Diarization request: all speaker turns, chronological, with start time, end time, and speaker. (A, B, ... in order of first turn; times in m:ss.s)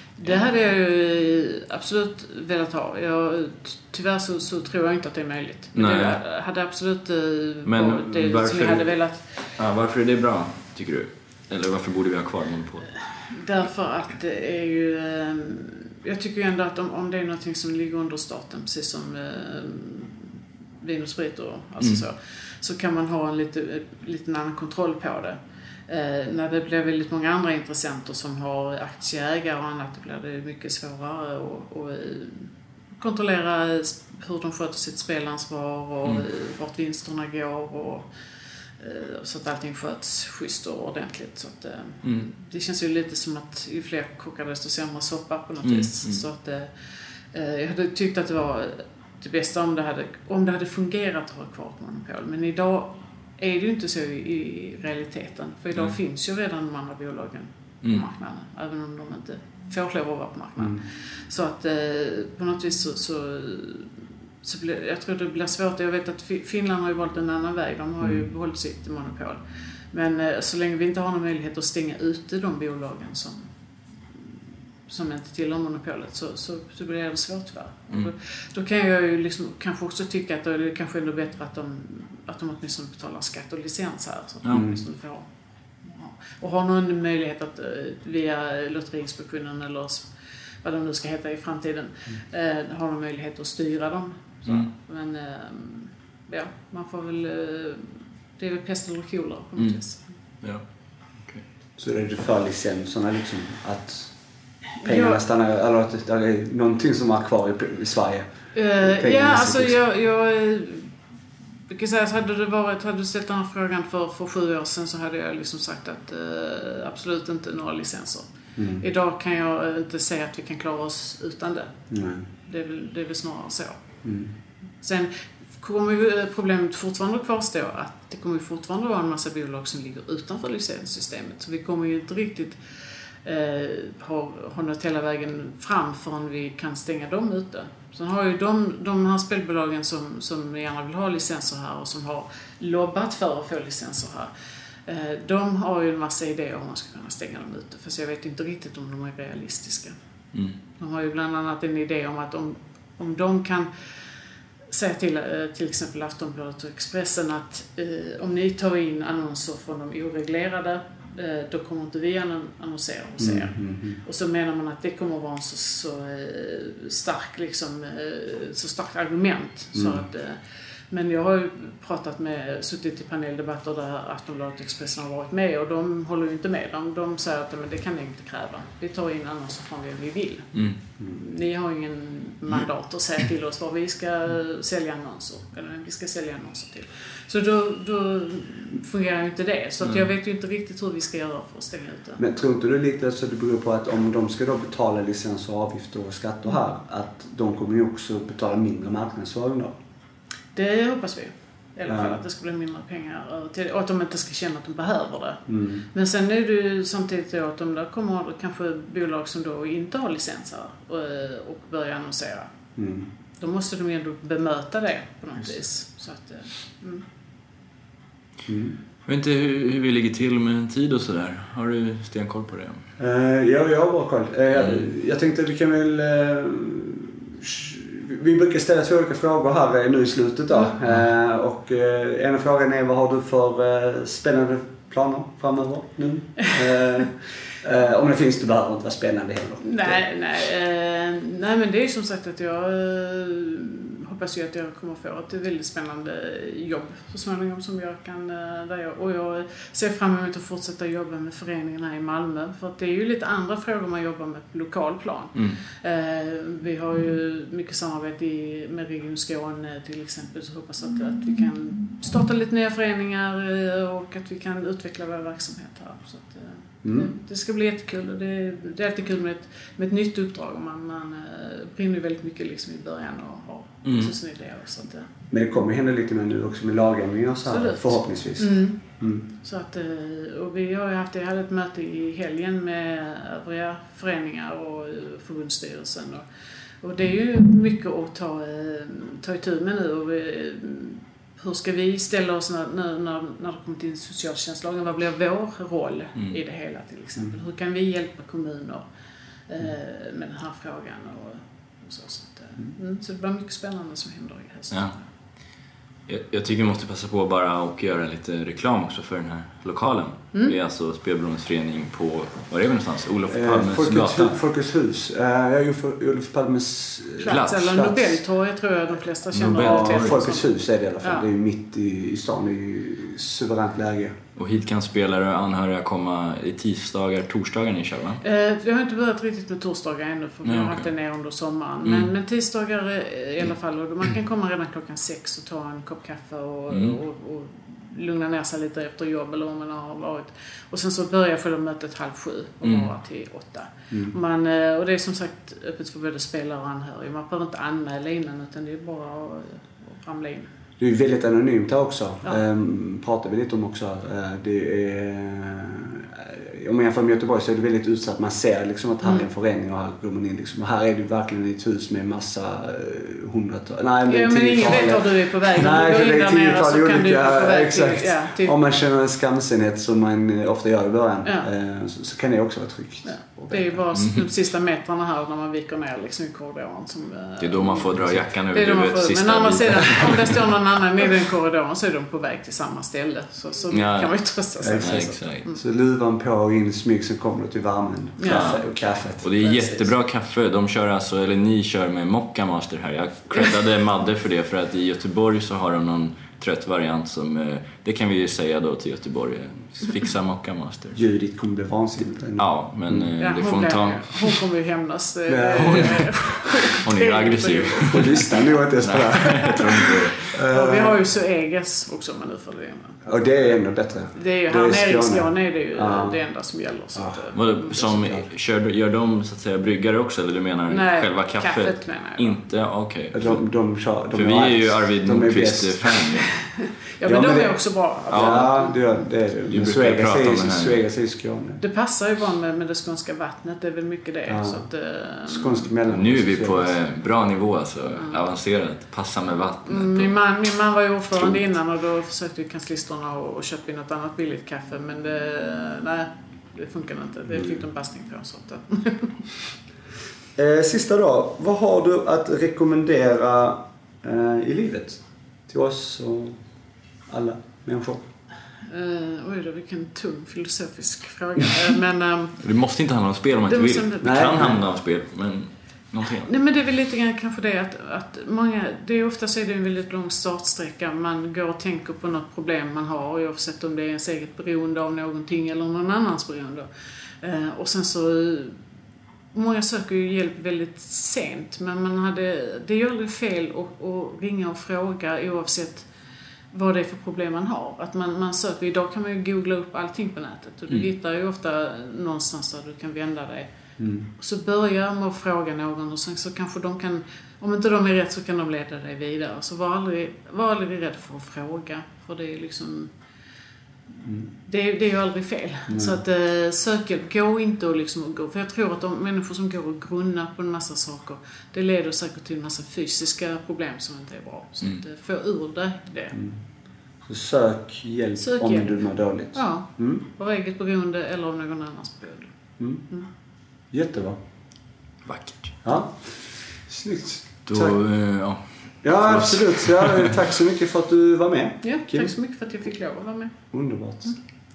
0:00.2-0:09.4 A
0:05.7-0:06.2 B
0:07.6-0:08.9 B
0:09.6-0:12.9 B
0:13.3-0:38.0 A
0:38.8-0:46.7 A
0:42.0-0:42.3 B
0:45.6-0:46.2 B
0:47.3-1:03.9 A
1:04.4-1:09.4 A
1:08.0-1:08.2 C
1:09.9-1:13.5 A
1:14.9-1:25.2 A
1:24.5-1:24.8 C
1:25.8-1:30.0 A
1:30.6-1:40.0 A
1:41.8-1:44.1 C
1:44.8-1:45.2 A
1:44.8-1:49.8 C
1:48.5-1:50.9 A
1:51.7-1:58.3 A
1:58.6-1:58.8 C
1:58.8-2:01.7 A
2:01.9-2:02.2 C
2:02.4-2:03.8 A
2:04.0-2:04.3 C
2:04.8-2:12.6 A
2:13.2-2:24.3 A
2:24.8-2:29.9 A
2:30.3-2:30.6 B
2:30.8-2:33.7 A
2:34.7-3:12.2 A
2:43.2-2:44.0 C
2:49.7-2:50.0 C
3:00.5-3:00.8 B
3:09.8-3:10.1 B
3:12.2-3:19.8 C
3:20.5-3:32.5 A
3:21.9-3:22.2 C
3:25.5-3:25.8 C
3:32.8-3:33.1 C
3:33.4-3:37.0 A
3:38.5-3:38.8 C
3:39.0-3:42.8 B
3:43.0-4:00.0 C
3:59.6-4:35.1 A
4:26.8-4:27.1 C
4:33.8-4:34.1 B
4:35.3-4:39.2 C
4:37.5-4:46.2 A
4:46.8-4:58.8 A
4:59.5-5:05.0 A
5:06.1-5:14.4 B
5:13.3-5:18.2 C
5:17.2-5:20.4 A
5:17.2-5:17.8 B
5:19.3-5:20.2 B
5:19.5-5:24.2 C
5:24.4-5:28.2 B
5:28.2-5:50.5 A
5:30.4-5:30.9 B
5:31.8-5:32.1 B
5:36.7-5:37.0 B
5:42.6-5:42.9 B
5:50.8-6:13.8 C
6:04.0-6:08.6 A
6:13.0-6:25.6 A
6:13.9-6:14.2 B
6:17.4-6:20.5 B
6:23.7-6:24.1 B
6:24.6-6:29.3 C
6:24.8-6:25.5 B
6:28.2-6:28.5 A
6:28.2-6:28.7 B
6:29.2-6:41.0 B
6:29.4-6:29.9 A
6:41.0-6:43.1 C
6:42.4-6:44.4 B
6:43.2-6:48.4 A
6:45.3-6:46.4 C
6:45.6-6:48.3 B
6:47.9-6:51.1 C
6:48.8-6:50.3 B
6:49.4-6:53.1 A
6:53.0-6:56.2 C
6:54.1-6:57.8 A
6:56.9-6:57.2 C
6:57.3-7:03.4 B
6:57.9-6:58.2 C
7:00.7-7:02.4 A
7:03.1-7:06.0 C
7:04.1-7:06.3 B
7:06.4-7:09.1 A
7:07.0-7:11.6 C
7:08.1-7:08.5 B
7:09.5-7:10.8 B
7:11.6-7:15.7 A
7:14.3-7:14.6 C
7:15.3-7:16.7 C
7:15.9-7:20.1 B
7:19.6-7:29.4 A
7:27.3-7:27.6 C
7:30.4-7:36.4 C
7:37.1-7:38.0 C
7:38.7-7:42.4 A
7:42.4-7:46.3 B
7:43.5-7:44.5 A
7:44.0-7:44.6 C
7:46.2-7:56.7 A
7:57.2-7:58.6 A
7:59.3-8:05.9 A
8:06.5-8:13.5 A
8:13.8-8:14.1 C
8:14.2-8:22.9 A
8:24.0-8:24.3 C
8:24.4-8:36.2 A
8:25.7-8:26.0 C
8:37.0-8:40.0 C
8:38.2-8:42.3 A
8:42.6-8:42.8 C
8:43.7-8:44.2 C
8:45.0-8:45.5 B
8:45.6-8:47.8 C
8:47.4-8:50.1 B
8:48.8-8:52.1 C
8:51.6-8:53.3 A
8:53.5-8:54.1 C